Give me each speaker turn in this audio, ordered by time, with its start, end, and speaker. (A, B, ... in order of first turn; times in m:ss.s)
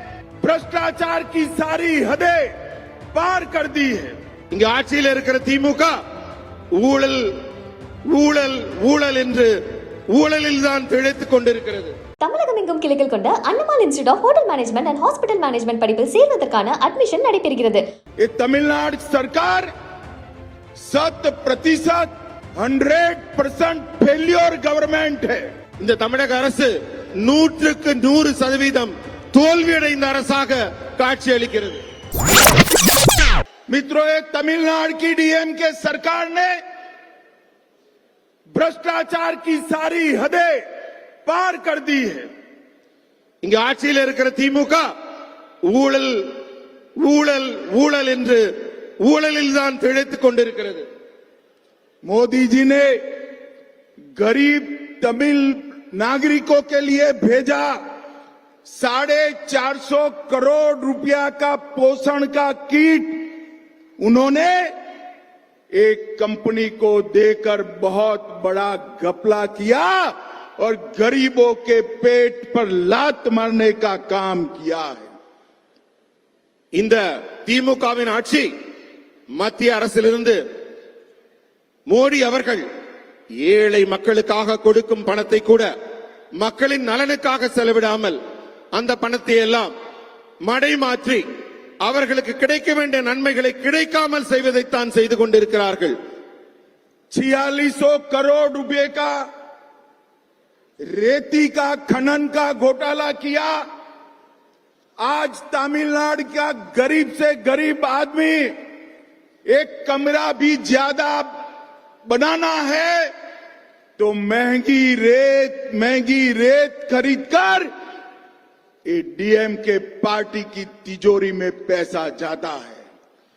0:00.4-0:02.5 A
0:03.1-0:04.2 A
0:04.5-0:05.9 B
0:06.8-0:07.3 B
0:08.1-0:09.5 B
0:10.1-0:11.9 B
0:12.2-0:17.8 C
0:18.2-0:19.7 A
0:20.8-0:25.4 A
0:25.8-0:31.8 B
0:33.7-0:36.5 A
0:38.5-0:40.6 A
0:41.2-0:42.3 A
0:43.4-0:44.8 B
0:45.7-0:46.3 B
0:47.0-0:48.4 B
0:49.0-0:50.8 B
0:52.0-0:52.9 A
0:54.2-0:57.8 A
0:58.7-1:03.3 A
1:04.0-1:04.7 A
1:05.7-1:15.1 A
1:16.8-1:18.5 B
1:19.4-1:20.4 B
1:21.9-1:22.6 B
1:23.4-1:25.7 B
1:26.4-1:28.2 B
1:28.7-1:29.7 B
1:30.4-1:31.2 B
1:31.8-1:35.9 B
1:37.1-1:39.1 A
1:40.8-1:43.6 A
1:45.0-1:48.5 A
1:49.5-1:51.3 A
1:52.1-1:53.1 A
1:54.0-1:57.7 A
1:58.8-2:02.8 A